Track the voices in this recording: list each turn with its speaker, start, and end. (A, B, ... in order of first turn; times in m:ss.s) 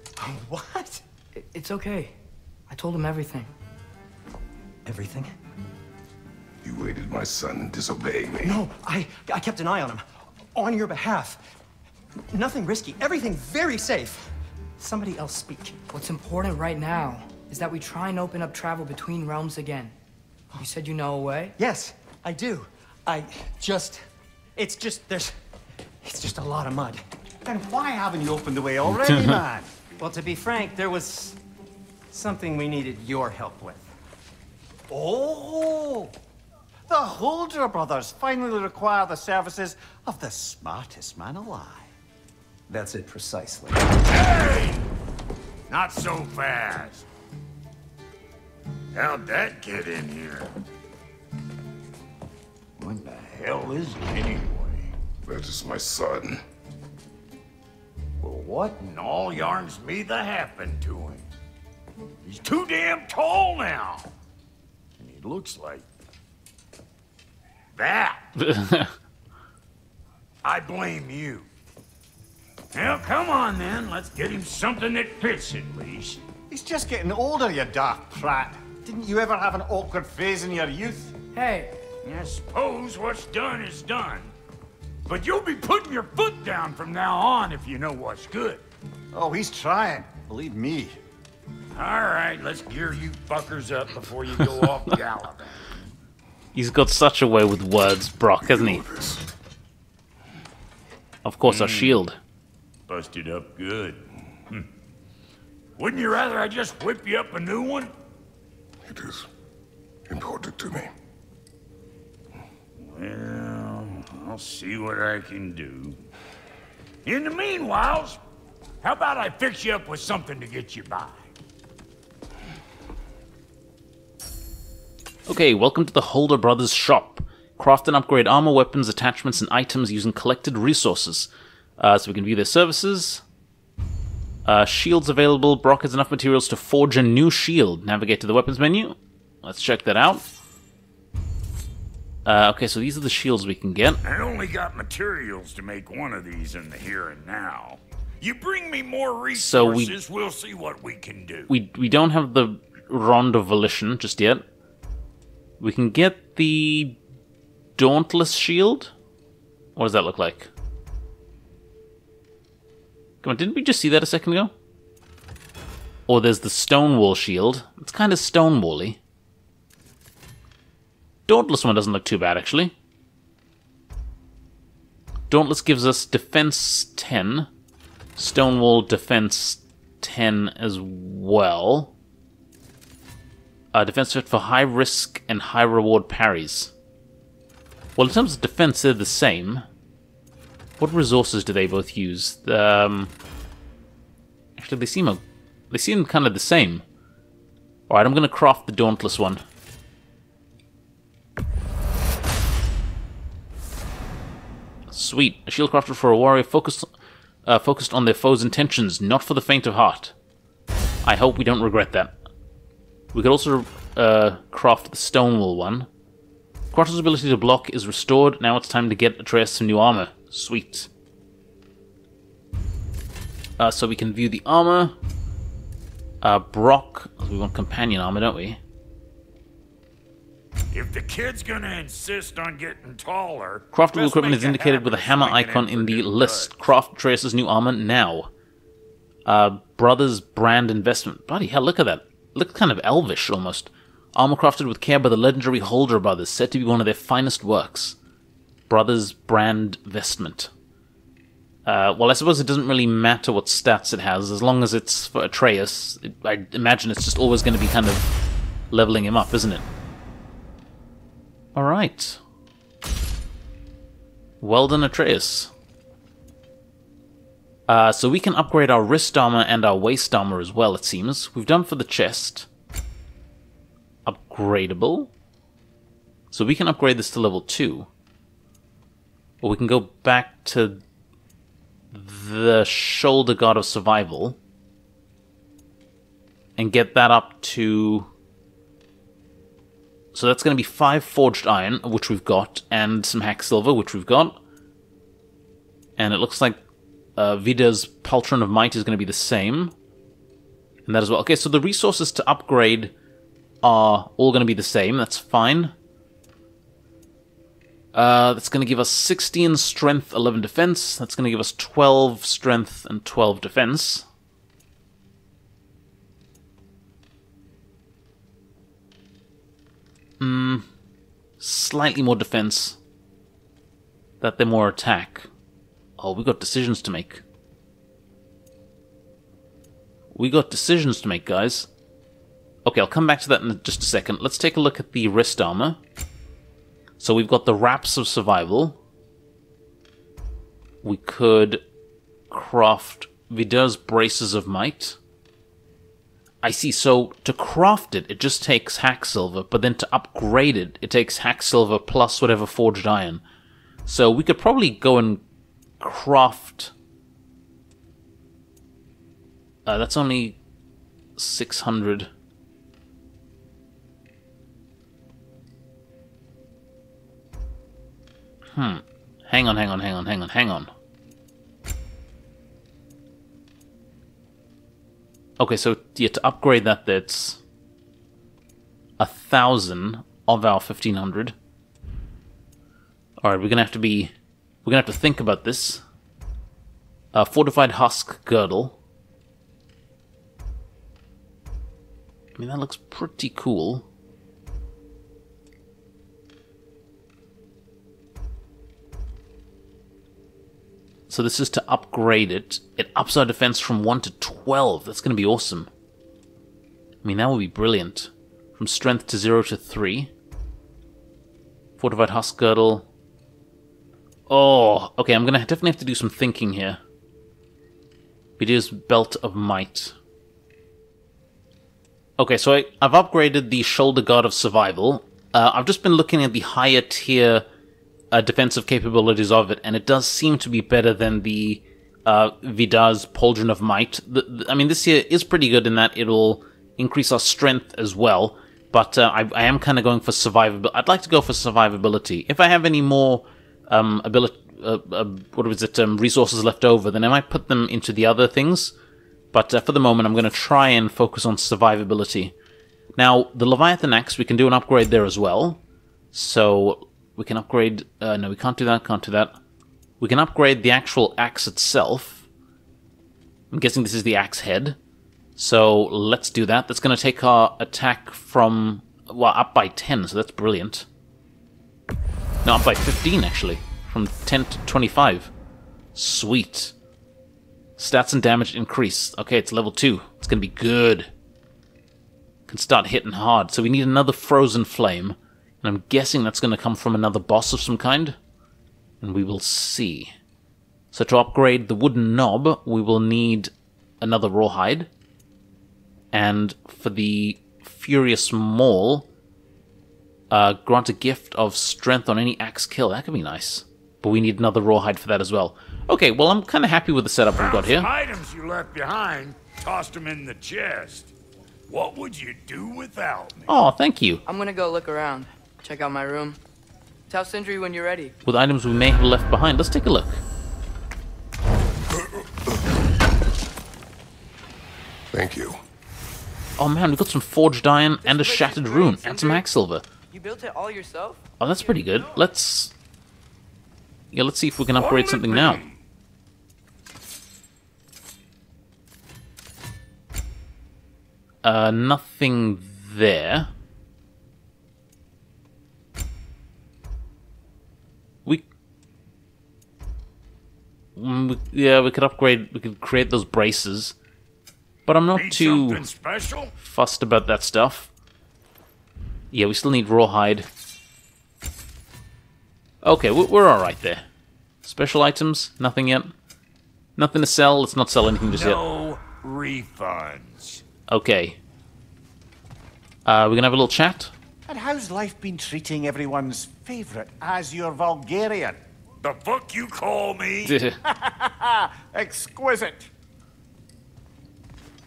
0:00.2-0:01.0 A
0:01.4-0:02.1 B
0:02.7-0:03.5 B
0:04.8-0:05.3 A
0:06.6-0:08.6 C
0:08.4-0:11.4 A
0:12.3-0:15.8 A
0:15.9-0:19.9 B
0:20.6-0:21.5 B
0:21.6-0:24.0 A
0:24.6-0:25.3 A
0:26.0-0:27.0 A
0:27.4-0:29.7 D
0:30.0-0:31.4 A
0:32.1-0:33.9 A
0:34.9-0:36.1 D
0:36.9-0:41.9 D
0:42.7-0:43.8 A
0:44.1-0:44.8 E
0:45.7-0:47.0 E
0:48.9-0:50.5 E
0:52.8-0:54.9 E
0:55.2-0:56.4 C
0:58.2-1:01.3 E
1:02.2-1:04.1 E
1:05.0-1:05.8 E
1:07.7-1:08.3 E
1:08.4-1:08.9 F
1:10.4-1:11.5 E
1:12.7-1:16.2 E
1:16.5-1:21.1 D
1:21.3-1:21.7 B
1:22.0-1:24.3 E
1:25.0-1:28.6 E
1:29.1-1:31.0 D
1:31.7-1:35.8 E
1:36.5-1:38.8 F
1:38.4-1:39.2 C
1:41.2-1:42.2 F
1:41.4-1:42.0 E
1:42.9-1:44.7 E
1:45.8-1:47.9 E
1:48.8-1:49.3 C
1:50.1-1:50.9 C
1:52.8-1:56.0 E
1:57.0-1:58.2 E
1:58.8-2:01.2 E
2:05.3-2:13.2 F
2:14.4-2:20.2 F
2:22.2-2:24.0 F
2:24.0-2:31.5 E
2:29.3-2:29.9 F
2:31.5-2:34.4 F
2:35.6-2:37.0 F
2:37.8-2:38.9 F
2:39.8-2:40.5 F
2:43.2-2:44.5 F
2:46.1-2:49.0 F
2:51.3-2:52.7 F
2:55.3-2:57.5 F
2:58.2-3:01.9 F
3:03.7-3:06.7 F
3:08.0-3:09.6 F
3:10.8-3:13.1 F
3:14.6-3:16.8 F
3:17.9-3:19.4 F
3:24.9-3:26.9 F
3:27.4-3:30.1 F
3:31.0-3:32.1 F
3:33.1-3:35.9 F
3:36.7-3:40.9 F
3:43.6-3:45.0 F
3:46.2-3:48.6 F
3:50.7-3:56.7 E
3:53.7-3:58.3 F
3:59.2-4:08.0 F
4:08.7-4:10.5 F
4:11.6-4:18.1 F
4:18.7-4:19.6 F
4:21.5-4:22.2 F
4:24.4-4:25.5 F
4:27.7-4:32.5 F
4:34.0-4:35.1 F
4:36.3-4:37.9 F
4:39.4-4:40.8 F
4:41.9-4:44.4 F
4:46.6-4:48.1 F
4:50.1-4:54.4 F
4:56.0-4:56.6 F
4:57.2-4:59.7 F
5:00.8-5:02.9 F
5:03.6-5:05.7 F
5:07.9-5:14.0 F
5:20.2-5:20.7 F
5:21.4-5:22.8 F
5:24.2-5:25.3 F
5:26.0-5:27.2 F
5:30.1-5:31.7 F
5:32.6-5:35.8 F
5:37.0-5:38.8 F
5:40.8-5:41.6 F
5:42.3-5:45.0 F
5:46.4-5:53.2 F
5:53.8-5:55.2 F
5:55.8-5:56.7 F
5:59.6-6:00.4 F
6:01.2-6:02.1 F
6:08.5-6:10.7 F
6:15.4-6:17.4 F
6:19.0-6:21.3 F
6:23.2-6:24.1 F
6:24.6-6:25.8 F
6:27.1-6:28.8 F
6:32.4-6:33.8 F
6:41.1-6:45.7 F
6:47.0-6:50.1 F
6:51.8-6:52.9 F
6:54.3-6:56.8 F
6:58.4-6:59.9 F
7:02.2-7:07.4 F
7:08.1-7:28.7 F
7:29.3-7:32.3 F
7:33.0-7:35.6 F
7:36.1-7:39.3 F
7:40.0-7:42.2 F
7:43.5-7:44.8 F
7:45.4-7:50.9 F
7:52.4-7:55.3 F
7:55.9-7:56.7 F
7:57.8-8:01.1 F
8:02.5-8:08.2 F
8:09.0-8:10.1 F
8:10.9-8:14.9 F
8:16.1-8:19.1 F
8:20.3-8:27.9 F
8:27.4-8:31.1 E
8:31.7-8:33.5 E
8:33.5-8:34.2 F
8:34.2-8:36.4 B
8:37.1-8:38.2 B
8:38.2-8:40.2 F
8:45.1-8:45.6 C
8:46.6-8:49.8 F
8:48.0-8:49.4 B
8:50.1-8:51.2 B
8:51.4-8:52.7 F
8:54.1-8:55.6 F
8:54.7-8:55.8 E
9:01.4-9:03.5 F
9:11.0-9:13.9 F
9:14.8-9:15.8 F
9:15.1-9:16.5 E
9:16.5-9:17.9 F
9:19.3-9:20.5 F
9:22.8-9:24.0 F
9:24.6-9:26.1 F
9:27.0-9:28.6 F
9:28.2-9:30.6 E
9:30.9-9:31.4 F
9:33.0-9:34.1 F
9:34.5-9:38.6 D
9:39.0-9:40.6 E
9:40.4-9:40.8 F
9:40.8-9:42.9 D